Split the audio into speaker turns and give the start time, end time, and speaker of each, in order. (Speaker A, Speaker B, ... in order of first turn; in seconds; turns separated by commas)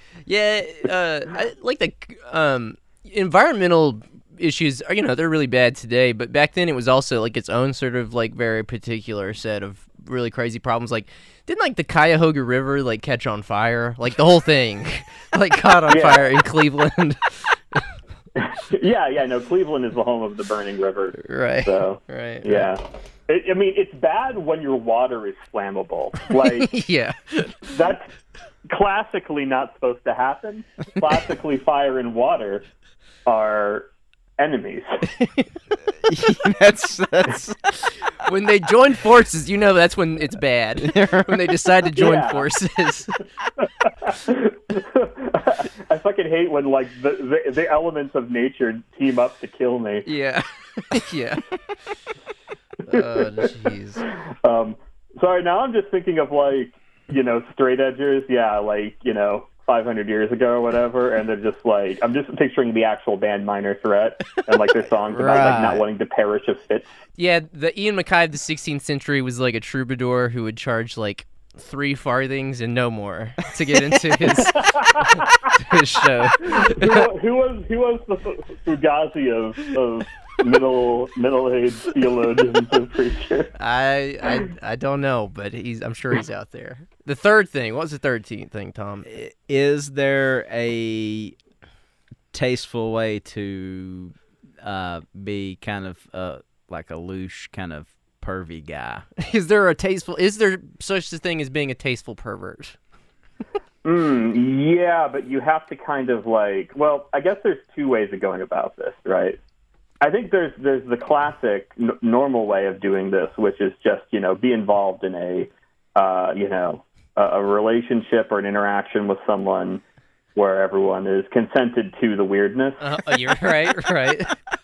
Speaker A: 0.2-17.9, Speaker B: 15.9-16.3, Speaker B: 18.4-26.7, Speaker A: 21.2-22.7, Speaker A: 26.6-27.7, Speaker B: 27.6-28.1, Speaker B: 28.6-32.6, Speaker B: 33.2-35.1, Speaker C: 36.0-37.7, Speaker A: 38.1-43.2, Speaker C: 40.8-41.6, Speaker B: 42.0-42.5, Speaker B: 43.8-50.1, Speaker A: 50.0-51.5, Speaker A: 52.9-54.0, Speaker B: 52.9-53.5, Speaker B: 54.0-66.9, Speaker C: 65.1-65.8, Speaker A: 67.2-77.1, Speaker B: 74.4-75.6, Speaker B: 76.4-83.5, Speaker A: 83.5-89.1, Speaker C: 89.0-91.4, Speaker C: 92.3-99.1, Speaker A: 99.2-102.8, Speaker B: 103.8-109.4, Speaker B: 110.0-119.8, Speaker B: 120.3-123.0, Speaker A: 122.8-124.4